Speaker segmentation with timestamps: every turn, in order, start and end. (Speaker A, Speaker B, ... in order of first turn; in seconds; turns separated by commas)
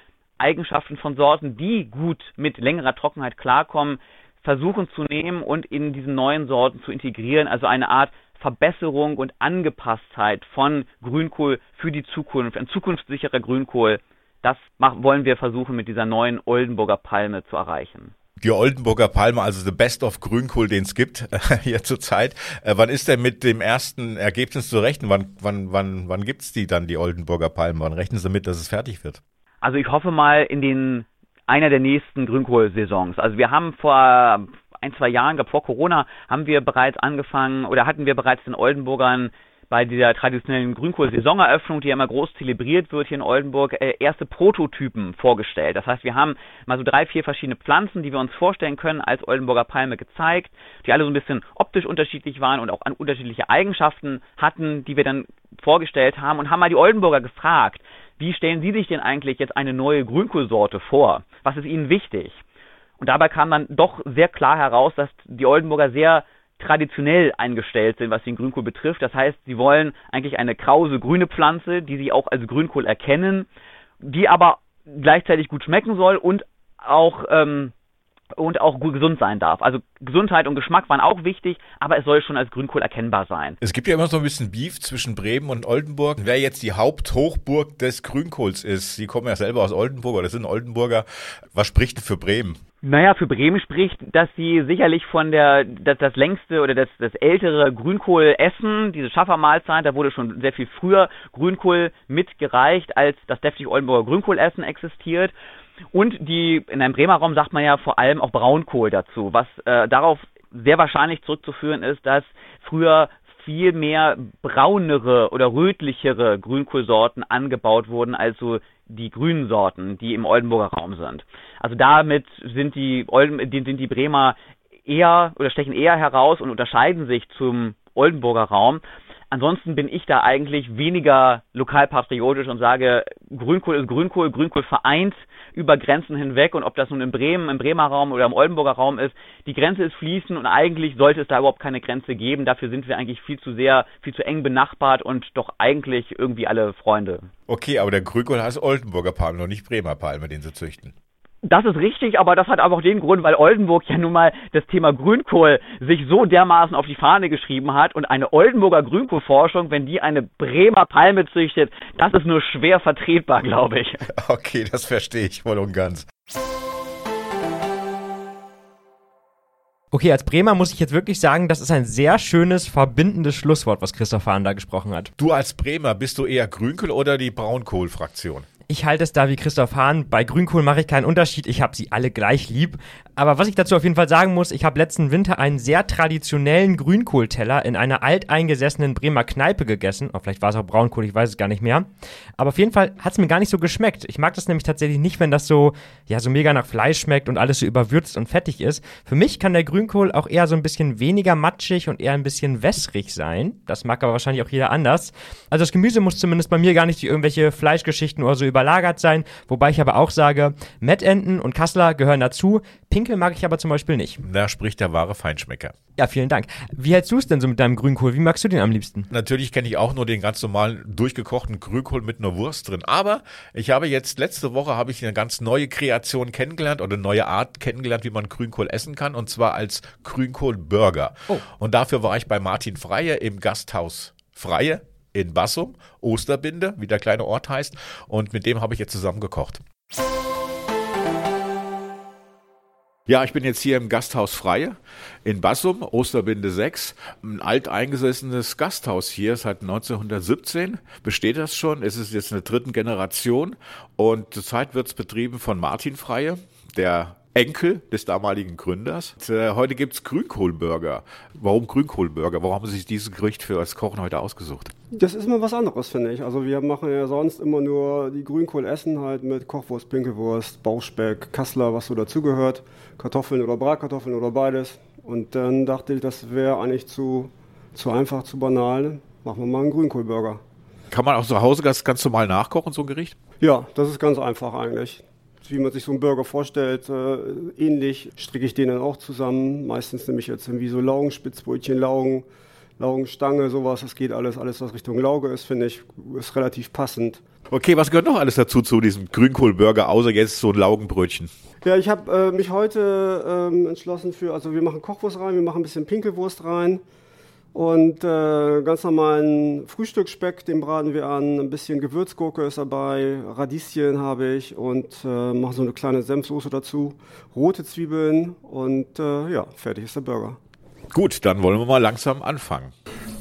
Speaker A: 0.4-18.1, Speaker B: 18.4-29.2, Speaker A: 29.6-62.4, Speaker A: 63.0-73.5, Speaker A: 74.0-77.7, Speaker A: 78.3-83.6, Speaker B: 83.6-92.6, Speaker A: 92.8-105.3, Speaker A: 105.9-147.3, Speaker B: 147.5-150.9, Speaker A: 151.4-164.1, Speaker B: 164.1-166.1, Speaker C: 169.9-175.1, Speaker B: 175.2-178.5, Speaker C: 178.7-191.9, Speaker C: 192.4-214.2, Speaker B: 214.2-215.7, Speaker C: 216.0-219.1, Speaker B: 219.1-239.6, Speaker B: 243.1-264.7, Speaker D: 264.9-280.4, Speaker B: 280.9-283.2, Speaker D: 283.4-292.2, Speaker D: 292.8-297.2, Speaker B: 297.5-301.3, Speaker D: 301.6-306.8, Speaker D: 307.5-320.4, Speaker B: 320.9-322.7